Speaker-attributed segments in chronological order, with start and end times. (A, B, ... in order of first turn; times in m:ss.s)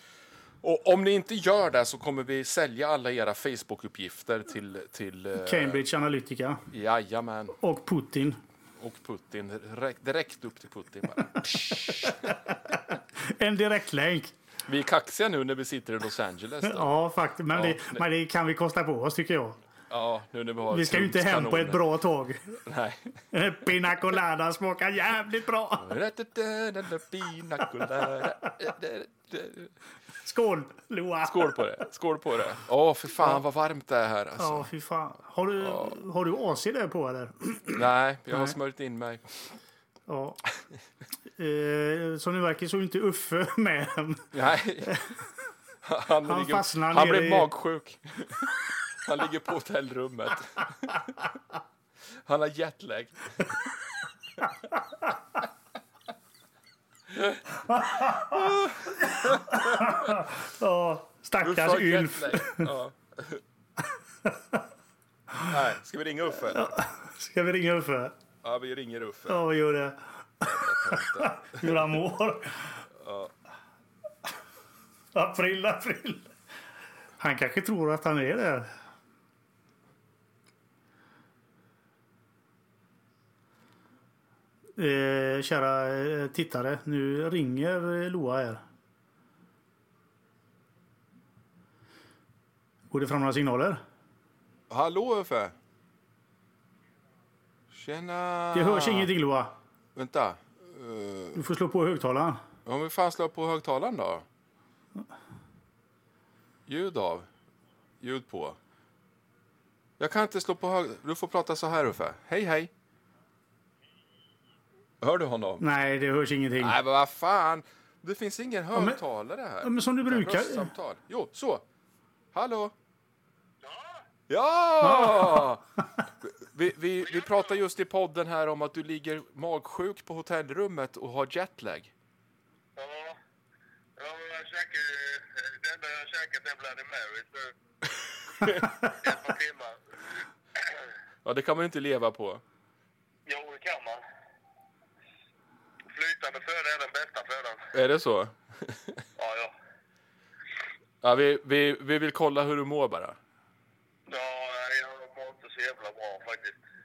0:00.6-0:05.8 A
0:05.4-0:06.6 B
0:06.7-0:07.6 A
0:07.6-0:08.4 B
0:08.8-0:12.4 A
0:12.0-0:14.3 B
0:14.7-0:17.0 A
0:16.6-0:19.6 B
0:17.5-0:18.0 A
0:19.9-0:21.8 A
0:20.7-0:22.6 B
0:22.6-0:23.2 A
0:23.3-0:25.9 B
0:25.8-0:29.7 A
0:30.2-0:31.7 B
0:31.2-0:34.7 A
0:34.4-0:38.5 B
0:35.6-0:36.0 A
0:37.8-0:39.5 A
0:40.1-0:40.4 B
0:41.4-0:44.3 B
0:44.3-0:45.1 A
0:45.8-0:51.3 A
0:46.2-0:47.5 B
0:52.2-0:53.6 A
0:57.1-0:57.4 A
0:57.7-1:02.7 B
0:58.2-1:00.2 A
1:01.4-1:03.4 A
1:04.2-1:04.6 B
1:05.4-1:06.8 A
1:06.5-1:08.2 B
1:08.4-1:09.4 A
1:09.3-1:12.8 B
1:10.4-1:11.9 A
1:13.0-1:13.3 A
1:15.1-1:16.3 B
1:17.2-1:18.7 B
1:24.8-1:28.6 B
1:32.9-1:33.8 B
1:34.7-1:35.6 A
1:37.7-1:39.1 A
1:38.5-1:39.6 B
1:40.0-1:41.4 A
1:41.4-1:42.4 B
1:42.6-1:44.2 A
1:46.7-1:47.3 A
1:48.0-1:48.6 A
1:50.0-1:52.7 A
1:55.0-1:55.6 A
1:55.6-1:56.8 B
1:56.6-2:01.6 A
1:59.6-2:00.7 B
2:02.3-2:02.7 A
2:03.6-2:04.0 C
2:04.3-2:05.6 A
2:04.8-2:05.5 B
2:06.2-2:11.9 A
2:07.0-2:07.5 C
2:12.8-2:13.2 C
2:14.0-2:17.5 C
2:18.4-2:19.8 C
2:21.2-2:22.4 A
2:23.3-2:24.0 C
2:25.9-2:27.6 C
2:27.7-2:29.0 A
2:29.2-2:29.5 C
2:31.0-2:33.2 A
2:34.1-2:36.6 C